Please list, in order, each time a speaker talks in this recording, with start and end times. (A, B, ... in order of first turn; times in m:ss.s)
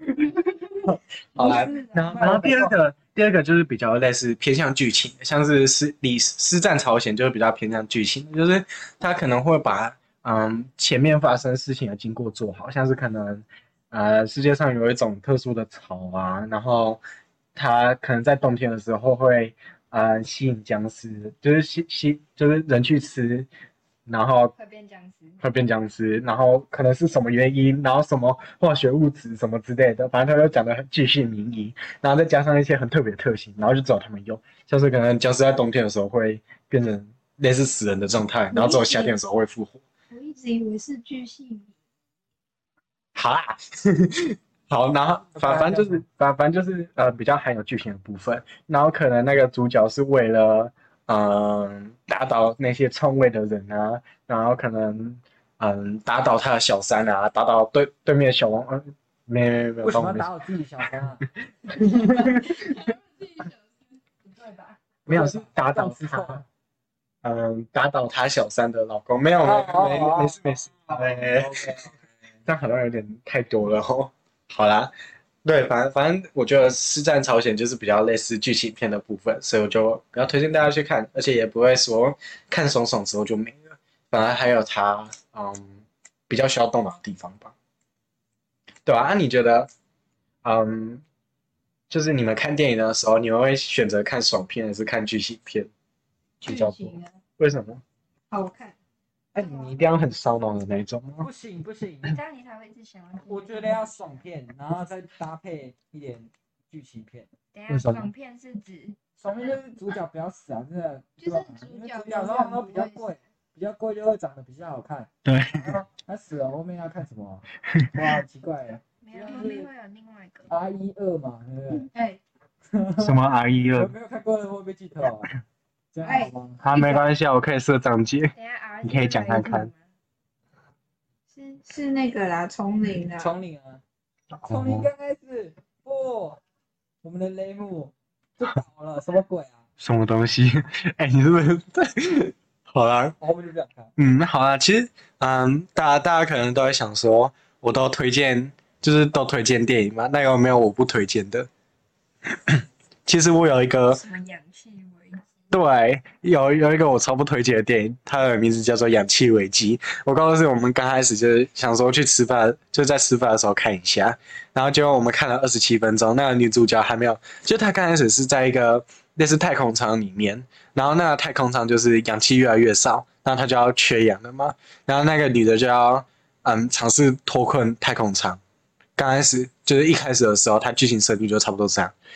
0:00.2-0:17.0 A
0:00.3-0:00.6 B
0:01.4-0:02.4 B
0:01.4-0:02.8 C
0:17.6-0:23.5 A
0:24.1-0:24.5 A
0:24.6-0:25.4 B
0:25.4-0:39.8 A
0:38.5-0:39.2 D
0:40.1-0:41.7 D
0:43.2-1:00.3 A
0:45.4-0:46.0 C
0:59.8-1:01.3 C
1:01.7-1:02.8 A
1:01.7-1:04.8 B
1:05.1-1:06.4 A
1:05.1-1:06.4 C
1:07.2-1:11.8 A
1:09.4-1:12.1 C
1:12.5-1:14.9 A
1:15.4-1:27.5 A
1:28.9-1:29.7 A
1:30.4-1:31.0 A
1:31.9-1:35.7 A
1:36.4-1:37.2 D
1:36.4-1:37.8 A
1:38.3-1:38.8 D
1:39.3-1:41.3 A
1:39.4-1:39.8 B
1:41.2-1:42.2 C
1:42.0-1:43.9 B
1:43.3-1:47.3 C
1:47.5-1:49.0 B
1:47.7-1:48.1 A
1:49.2-1:59.7 C
1:51.2-1:53.1 B
1:51.4-1:52.9 D
1:55.2-1:55.8 A
1:59.0-2:00.5 B
1:59.2-1:59.6 D
2:00.5-2:01.9 C
2:01.9-2:02.2 D
2:02.7-2:03.2 C
2:03.0-2:03.9 A
2:03.8-2:05.3 C
2:05.9-2:06.6 C
2:06.0-2:07.0 D
2:06.6-2:09.7 A
2:08.3-2:09.9 B
2:11.3-2:13.3 D
2:13.1-2:13.8 C
2:14.3-2:14.9 A
2:14.5-2:16.4 C
2:17.0-2:19.7 C
2:19.8-2:23.2 A
2:23.2-2:23.9 C
2:24.0-2:31.5 A
2:32.5-2:34.0 A
2:33.9-2:35.4 B
2:35.5-2:58.4 A
2:59.0-3:01.9 A